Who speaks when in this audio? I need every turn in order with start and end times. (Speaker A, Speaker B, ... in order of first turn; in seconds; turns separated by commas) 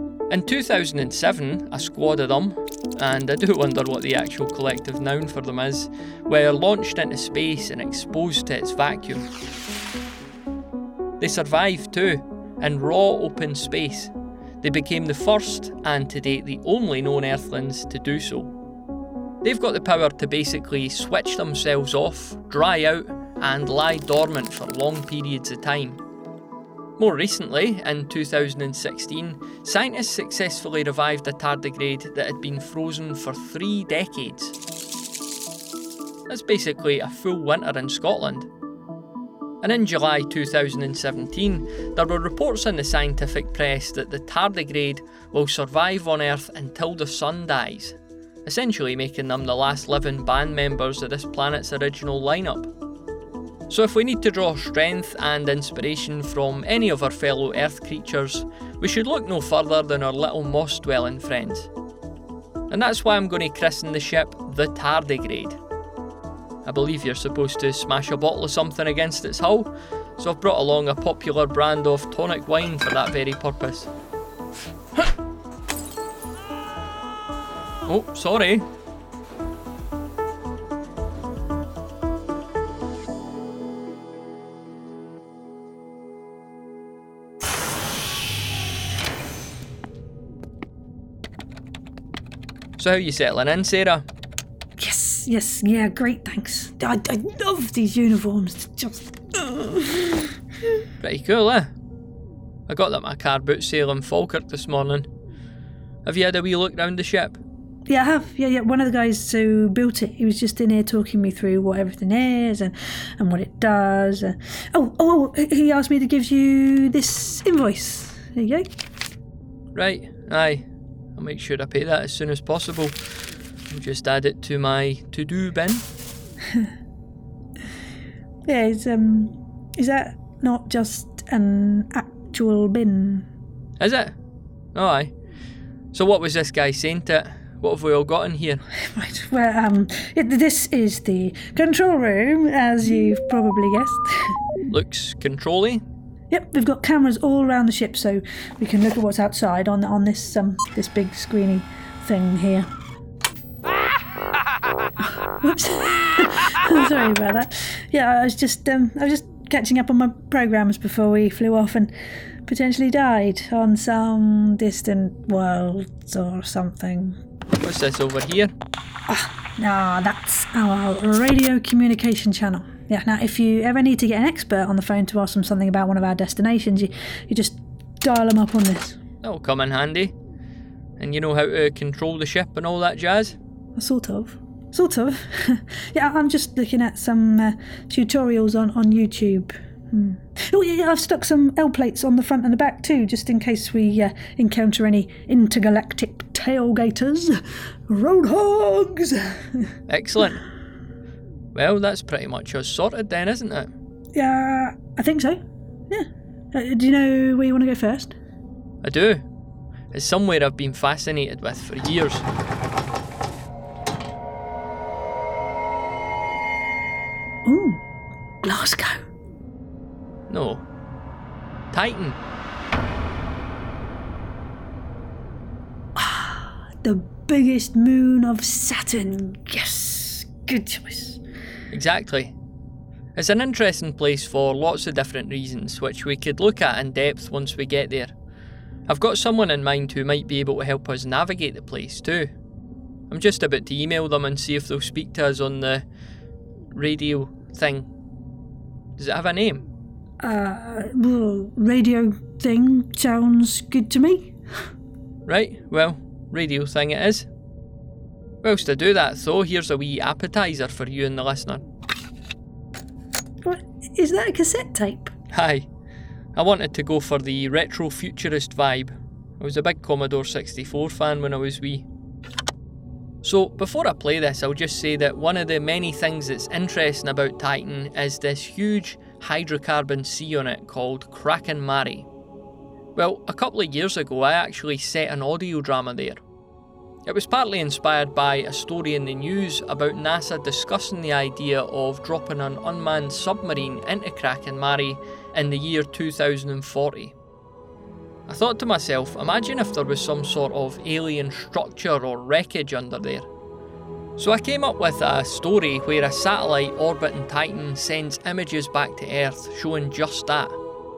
Speaker A: 0.3-9.3, Speaker A: 11.2-18.5, Speaker A: 19.4-26.0, Speaker A: 27.0-34.5, Speaker A: 36.3-38.5, Speaker A: 39.6-52.7, Speaker A: 53.7-61.7, Speaker A: 62.7-65.6, Speaker A: 66.6-73.9, Speaker A: 77.9-78.7, Speaker A: 92.8-94.0, Speaker B: 94.8-100.3, Speaker A: 101.0-101.7, Speaker A: 102.7-105.1, Speaker A: 106.0-107.4, Speaker B: 107.9-118.7, Speaker A: 119.7-123.0, Speaker A: 123.7-125.8, Speaker B: 128.5-133.3, Speaker A: 133.8-134.1, Speaker A: 134.8-135.1, Speaker A: 135.9-138.6, Speaker B: 138.9-144.3, Speaker A: 144.7-145.8, Speaker B: 146.3-152.7, Speaker B: 155.0-161.9, Speaker B: 162.5-167.2, Speaker A: 167.6-168.5, Speaker B: 169.1-179.0, Speaker A: 179.2-180.1, Speaker A: 181.0-183.4, Speaker B: 183.8-199.7, Speaker A: 199.9-200.4, Speaker A: 201.5-203.7, Speaker B: 204.1-208.2, Speaker A: 208.8-209.2, Speaker A: 209.9-212.2, Speaker B: 217.4-217.8, Speaker B: 218.4-219.0, Speaker A: 220.3-220.6, Speaker A: 221.7-222.2, Speaker B: 226.0-231.2, Speaker A: 231.7-232.3, Speaker A: 233.2-238.1, Speaker A: 238.9-242.3, Speaker A: 243.1-245.8, Speaker A: 246.7-247.9, Speaker A: 249.0-249.7, Speaker B: 250.2-254.3, Speaker A: 255.3-257.3, Speaker A: 258.4-261.6, Speaker B: 263.4-265.1, Speaker A: 265.3-265.7, Speaker A: 266.4-271.9, Speaker A: 273.2-282.1, Speaker A: 283.0-286.2, Speaker A: 287.1-297.1, Speaker A: 298.3-303.3, Speaker A: 304.2-310.6